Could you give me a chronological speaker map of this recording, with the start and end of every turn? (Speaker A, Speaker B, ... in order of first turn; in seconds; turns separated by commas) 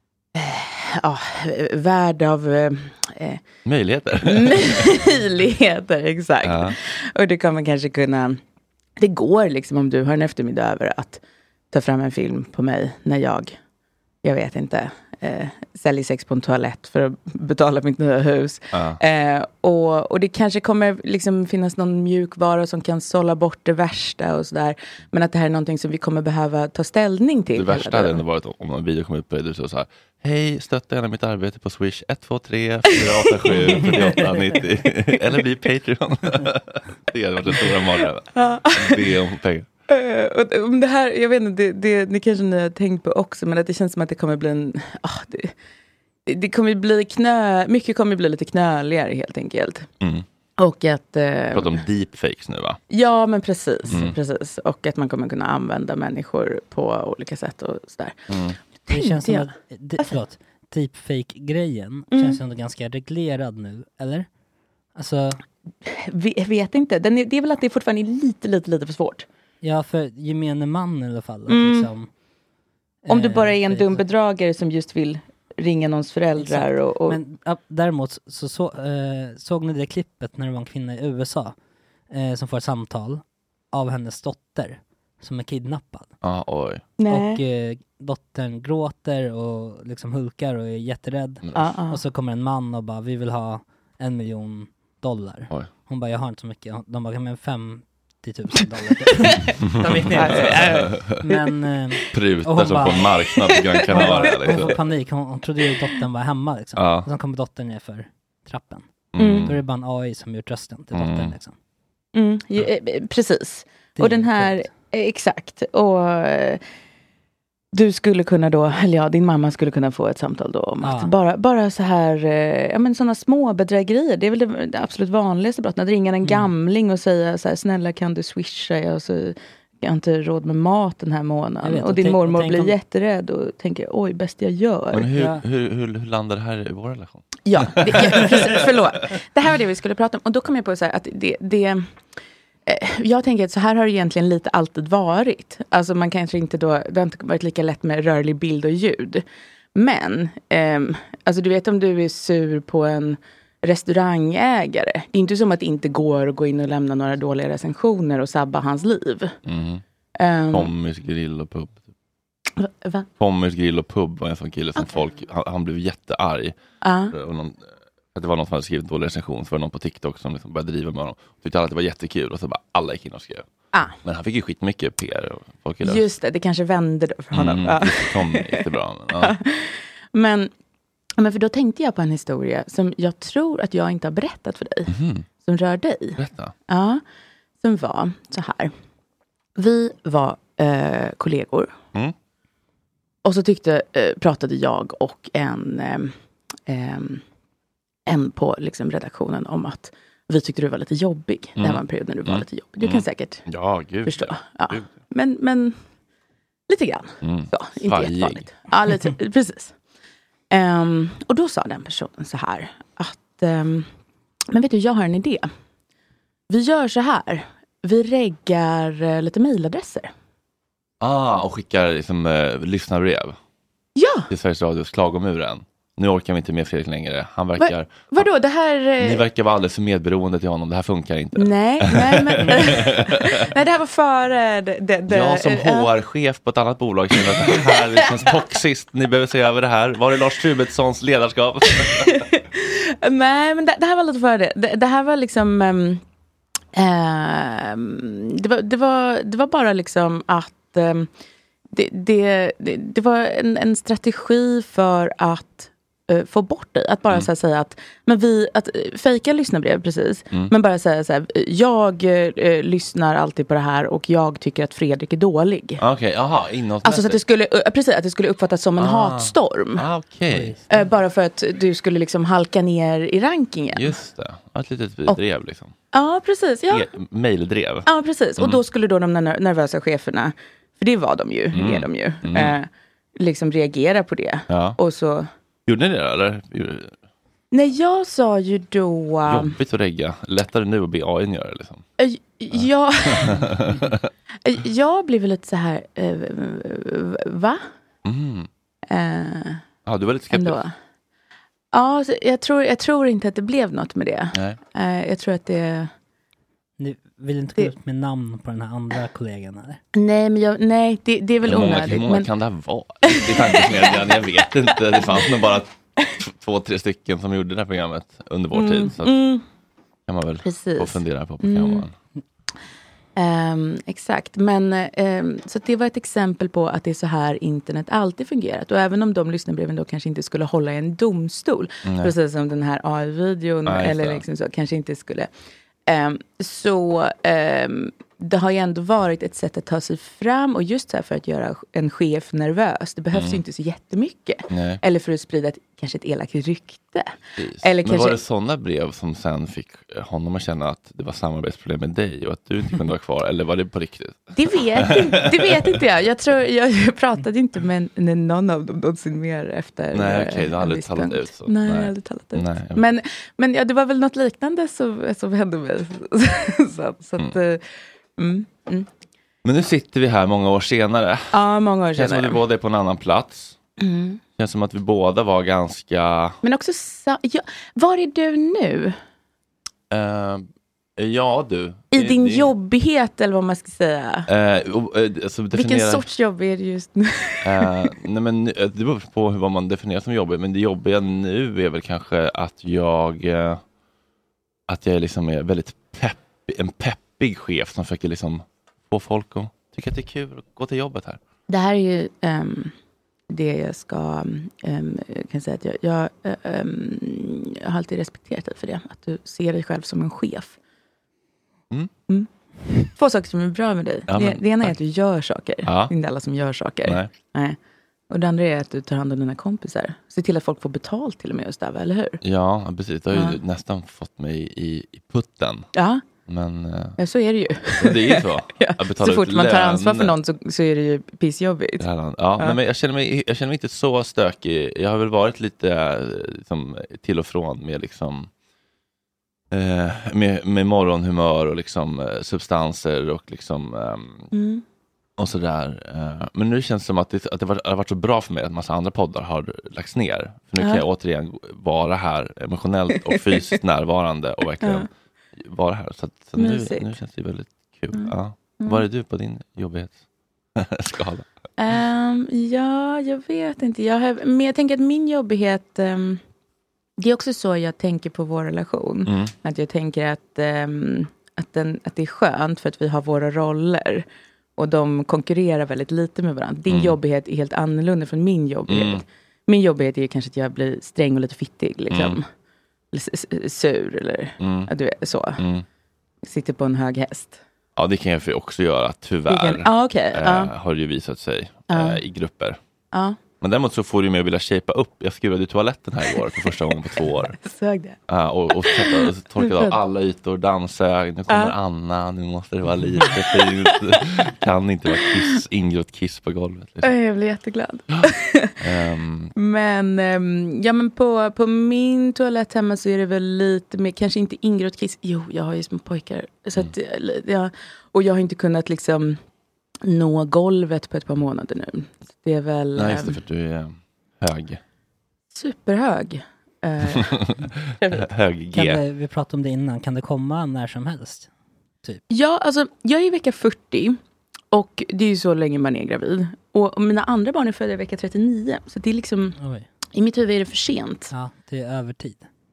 Speaker A: 0.3-3.5, Speaker B: 3.7-4.8, Speaker A: 4.2-8.4, Speaker B: 6.4-6.8, Speaker A: 9.0-13.6, Speaker A: 14.2-28.2, Speaker B: 18.7-19.0, Speaker B: 27.6-39.7, Speaker A: 32.9-35.4, Speaker A: 38.4-39.1, Speaker A: 39.9-45.5, Speaker A: 46.3-49.9, Speaker A: 50.6-51.8, Speaker B: 51.5-52.8, Speaker A: 52.9-58.2, Speaker B: 53.9-54.2, Speaker B: 58.3-58.6, Speaker A: 58.9-60.2, Speaker C: 58.9-64.3, Speaker A: 62.1-62.4, Speaker C: 65.0-65.4, Speaker A: 65.8-69.3, Speaker C: 69.6-72.1, Speaker A: 71.5-71.9, Speaker C: 73.1-74.0, Speaker A: 73.1-77.2, Speaker C: 76.4-81.5, Speaker C: 82.1-86.1, Speaker B: 86.2-86.8, Speaker A: 87.0-87.4, Speaker C: 87.1-103.2, Speaker B: 91.4-91.7, Speaker A: 91.5-92.0, Speaker A: 99.2-99.5, Speaker B: 99.7-101.2, Speaker A: 100.1-100.9, Speaker B: 102.1-104.8, Speaker A: 103.4-104.6, Speaker C: 103.9-108.9, Speaker B: 106.8-107.1, Speaker B: 109.2-109.5, Speaker A: 109.2-109.5, Speaker C: 109.5-111.5, Speaker B: 110.9-111.3, Speaker A: 112.2-116.6, Speaker C: 114.0-114.7, Speaker A: 117.7-135.1, Speaker C: 120.8-121.1, Speaker C: 131.6-132.8, Speaker B: 134.9-138.7, Speaker C: 135.2-135.4, Speaker A: 137.5-141.9, Speaker A: 142.7-149.2, Speaker A: 149.8-159.3, Speaker B: 159.5-159.8, Speaker A: 160.2-160.7, Speaker B: 160.5-161.9, Speaker A: 162.6-163.1, Speaker B: 163.2-166.6, Speaker A: 164.8-165.0, Speaker A: 166.8-167.2, Speaker B: 167.1-167.6, Speaker B: 168.1-173.5, Speaker B: 174.0-176.1, Speaker A: 175.8-180.5, Speaker B: 177.3-179.3, Speaker A: 181.2-187.0, Speaker B: 184.9-185.2, Speaker B: 186.2-186.5, Speaker A: 187.6-188.7, Speaker A: 189.6-191.8, Speaker A: 193.2-196.1, Speaker A: 196.7-197.2, Speaker A: 198.1-203.4, Speaker B: 201.6-204.9, Speaker A: 204.1-205.8, Speaker A: 206.7-209.7, Speaker B: 207.2-208.6, Speaker A: 210.5-213.9, Speaker A: 214.5-215.5, Speaker A: 216.5-220.1, Speaker B: 221.0-223.4, Speaker A: 224.0-224.3, Speaker B: 224.3-228.3, Speaker A: 227.6-229.2, Speaker B: 229.0-233.5, Speaker A: 231.3-235.9, Speaker B: 235.1-242.1, Speaker A: 237.1-238.4, Speaker A: 241.8-246.0, Speaker A: 246.7-251.1, Speaker A: 251.7-265.8, Speaker B: 265.8-267.2, Speaker A: 266.8-269.8, Speaker B: 268.8-270.6, Speaker C: 270.3-270.7, Speaker A: 270.7-274.0, Speaker B: 273.8-275.7, Speaker A: 275.9-276.9, Speaker B: 276.7-278.6, Speaker A: 277.9-285.3, Speaker B: 281.5-282.6, Speaker B: 284.5-284.8, Speaker B: 285.7-286.9, Speaker A: 287.5-289.6, Speaker B: 289.3-291.8, Speaker A: 292.0-293.6, Speaker B: 292.5-294.1, Speaker A: 294.4-297.6, Speaker B: 298.1-298.5, Speaker A: 298.9-299.7, Speaker B: 299.9-300.6, Speaker A: 300.3-300.7, Speaker A: 301.7-305.9, Speaker C: 306.8-309.8, Speaker A: 309.9-312.3, Speaker B: 311.4-319.2, Speaker A: 313.0-315.4, Speaker A: 318.5-319.4, Speaker B: 320.1-321.9, Speaker A: 320.4-321.9, Speaker A: 323.2-335.3, Speaker B: 331.9-332.1, Speaker B: 333.7-334.2, Speaker A: 335.9-348.2, Speaker B: 343.1-343.4, Speaker B: 344.5-344.8, Speaker B: 347.4-355.8, Speaker A: 354.4-367.6, Speaker B: 359.9-362.9, Speaker A: 368.2-368.9, Speaker B: 369.4-371.4, Speaker A: 371.3-372.4, Speaker B: 371.9-373.6, Speaker A: 373.8-374.2, Speaker B: 374.4-376.4, Speaker A: 376.4-379.0, Speaker B: 379.9-380.5, Speaker B: 381.0-382.5, Speaker A: 381.9-384.3, Speaker B: 384.3-386.0, Speaker A: 385.5-387.9, Speaker B: 387.4-393.6, Speaker B: 394.7-401.2, Speaker A: 401.5-402.7, Speaker A: 403.3-410.6, Speaker A: 412.1-417.6, Speaker B: 414.1-414.8, Speaker B: 415.6-415.9, Speaker B: 416.9-417.1, Speaker A: 418.1-422.2, Speaker B: 422.2-425.7, Speaker A: 423.1-423.4, Speaker A: 425.8-426.1, Speaker B: 426.3-427.0, Speaker A: 427.0-431.9, Speaker B: 427.8-430.2, Speaker B: 431.8-438.3, Speaker B: 439.5-444.3, Speaker A: 444.3-444.6, Speaker B: 445.2-460.0, Speaker A: 450.6-450.9, Speaker A: 453.0-453.4, Speaker A: 454.6-454.9, Speaker A: 456.4-456.9, Speaker A: 457.9-458.9, Speaker B: 460.6-461.2, Speaker A: 461.6-466.2, Speaker A: 467.0-474.1, Speaker B: 469.1-469.3, Speaker A: 474.6-482.2, Speaker B: 476.7-477.0, Speaker B: 478.7-479.0, Speaker B: 481.9-482.2, Speaker A: 482.9-485.4, Speaker B: 484.4-484.7, Speaker B: 485.4-485.6, Speaker A: 486.2-487.4, Speaker B: 487.8-492.6, Speaker A: 489.3-490.5, Speaker A: 491.7-492.0, Speaker A: 492.9-493.2, Speaker B: 493.4-497.4, Speaker A: 496.0-498.0, Speaker B: 498.1-506.9, Speaker A: 498.5-499.8, Speaker A: 501.3-501.6, Speaker A: 503.0-503.9, Speaker A: 504.9-505.4, Speaker A: 506.8-508.5, Speaker B: 508.6-509.3, Speaker A: 509.4-519.2, Speaker A: 519.8-523.2, Speaker B: 522.8-524.6, Speaker A: 525.3-527.2, Speaker B: 527.6-528.8, Speaker A: 527.8-528.1, Speaker C: 528.5-531.3, Speaker A: 532.1-534.0, Speaker A: 534.5-539.4, Speaker C: 539.4-539.7, Speaker A: 539.9-541.1, Speaker C: 541.1-542.3